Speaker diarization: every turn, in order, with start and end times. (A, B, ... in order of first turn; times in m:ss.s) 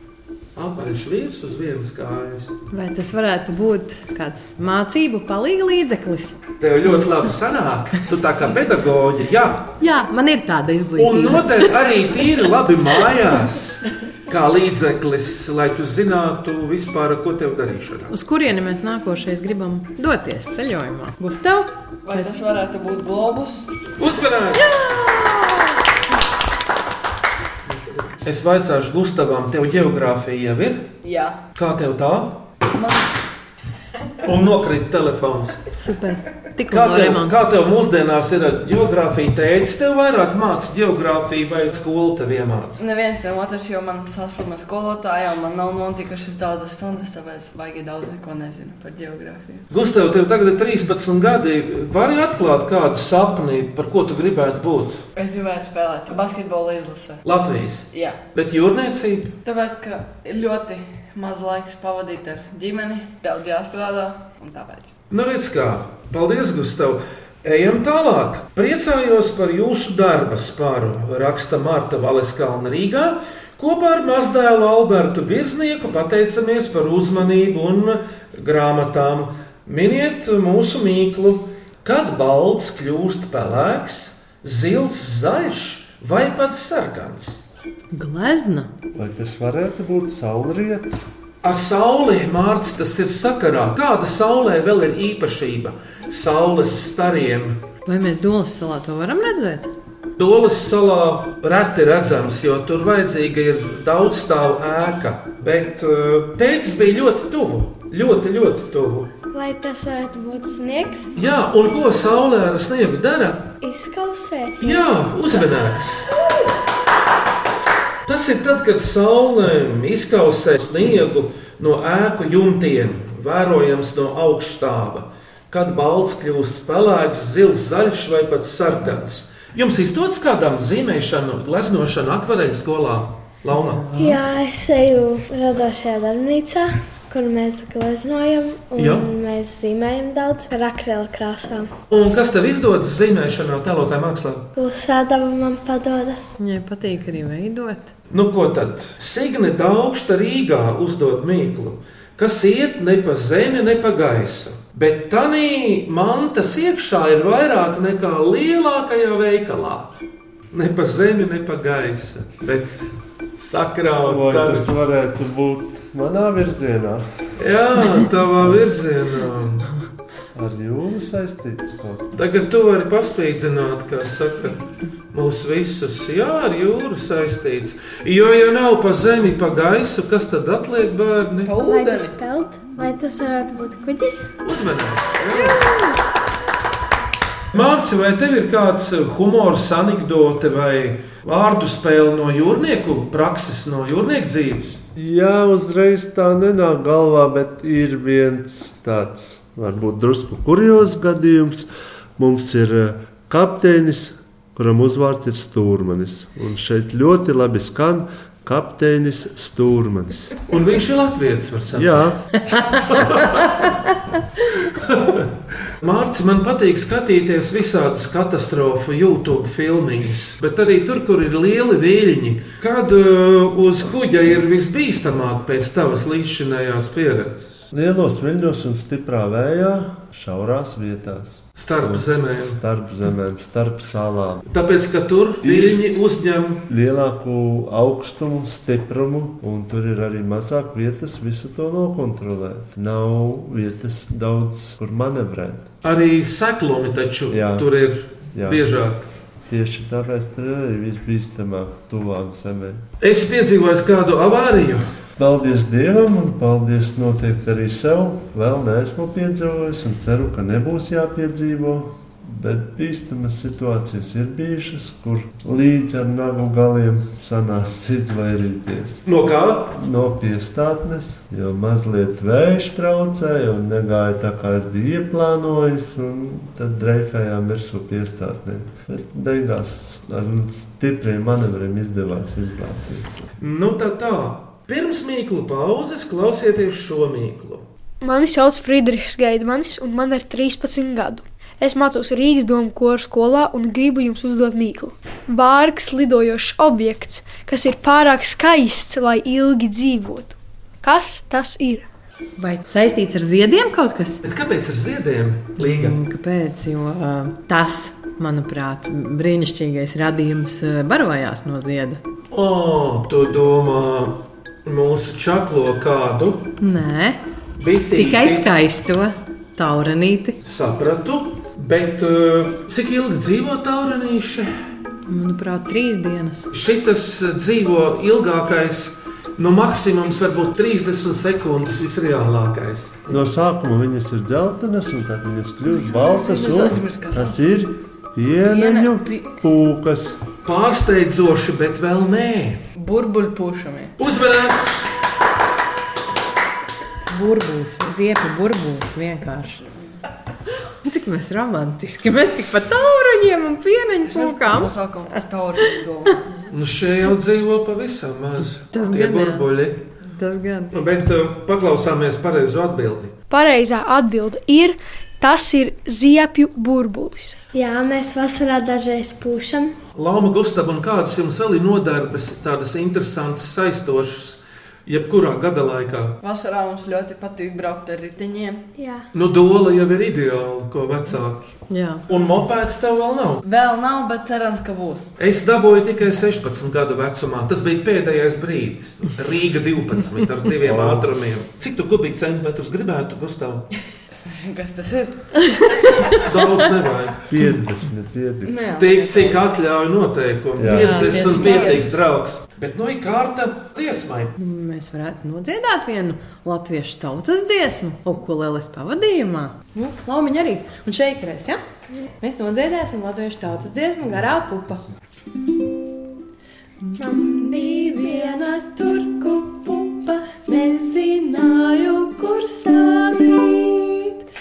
0:00.5-0:02.5 A
0:02.7-0:06.4 B
0:06.6-0:09.8 A
0:09.8-0:11.7 B
0:11.0-0:18.1 A
0:18.1-0:22.3 B
0:22.0-0:23.8 C
0:24.0-0:25.0 A
0:28.0-0:30.9 A
0:31.0-0:31.4 C
0:31.5-0:32.4 A
0:32.7-0:33.1 C
0:34.2-0:35.6 A
0:35.8-0:37.4 B
0:36.7-0:42.8 A
0:42.8-0:49.6 C
0:49.7-0:55.0 A
0:55.2-0:57.2 C
0:57.2-0:59.3 A
0:57.9-0:58.2 C
0:59.4-1:04.9 C
1:05.1-1:27.4 A
1:27.9-1:28.7 B
1:28.9-1:31.1 D
1:31.4-1:37.6 A
1:37.9-1:39.7 B
1:40.2-1:49.1 A
1:49.3-1:51.1 E
1:51.1-1:53.5 A
1:53.6-1:55.4 E
1:54.6-1:56.1 A
1:58.0-2:13.8 A
2:13.5-2:14.2 B
2:14.0-2:21.7 E
2:18.8-2:19.0 A
2:21.9-2:24.5 A
2:24.6-2:26.3 E
2:26.4-2:27.9 B
2:28.1-2:39.9 A
2:40.5-2:44.7 A
2:44.0-2:47.0 D
2:47.4-2:49.7 A
2:50.3-2:52.1 D
2:52.1-3:01.5 A
3:01.4-3:02.1 C
3:01.6-3:04.3 E
3:04.4-3:05.7 A
3:07.5-3:14.8 A
3:15.0-3:30.4 D
3:30.5-3:33.7 A
3:31.7-3:32.2 D
3:34.5-3:35.2 A
3:35.8-3:47.7 A
3:47.7-3:54.4 D
3:51.6-3:52.6 A
3:54.5-3:56.6 A
3:55.4-3:55.9 D
3:56.7-4:05.7 D
4:05.8-4:09.1 A
4:07.3-4:07.7 D
4:08.3-4:08.7 D
4:09.5-4:12.8 D
4:13.0-4:14.8 A
4:15.2-4:29.0 D
4:29.1-4:29.7 A
4:29.7-4:43.2 D
4:43.4-4:47.6 A
4:48.0-5:01.9 F
5:02.4-5:04.2 B
5:04.2-5:06.0 A
5:05.6-5:12.0 B
5:12.3-5:16.5 A
5:16.6-5:17.2 B
5:17.6-5:18.5 A
5:17.9-5:20.4 B
5:20.4-5:24.5 A
5:25.1-5:26.5 B
5:26.5-5:33.0 A
5:33.1-5:40.2 D
5:35.9-5:37.4 C
5:38.4-5:39.3 C
5:40.4-5:42.6 A
5:42.8-5:43.9 C
5:44.0-5:45.0 A
5:47.1-5:49.6 B
5:50.8-5:54.7 B
5:54.0-5:56.3 C
5:56.5-5:59.8 A
5:58.7-5:59.4 B
6:00.1-6:00.7 B
6:00.7-6:03.1 A
6:03.3-6:07.4 F
6:07.5-6:09.8 E
6:10.0-6:16.2 A
6:16.2-6:18.6 C
6:18.8-6:19.1 E
6:19.1-6:23.4 A
6:21.7-6:22.0 B
6:23.4-6:25.1 C
6:25.2-6:33.6 A
6:30.6-6:31.1 D
6:34.1-6:36.1 C
6:36.1-6:37.2 A
6:37.3-6:38.7 D
6:38.4-6:39.4 C
6:38.7-6:44.4 A
6:40.6-6:41.2 D
6:40.8-6:41.8 B
6:40.9-6:41.9 C
6:44.4-6:51.6 B
6:52.2-6:54.9 B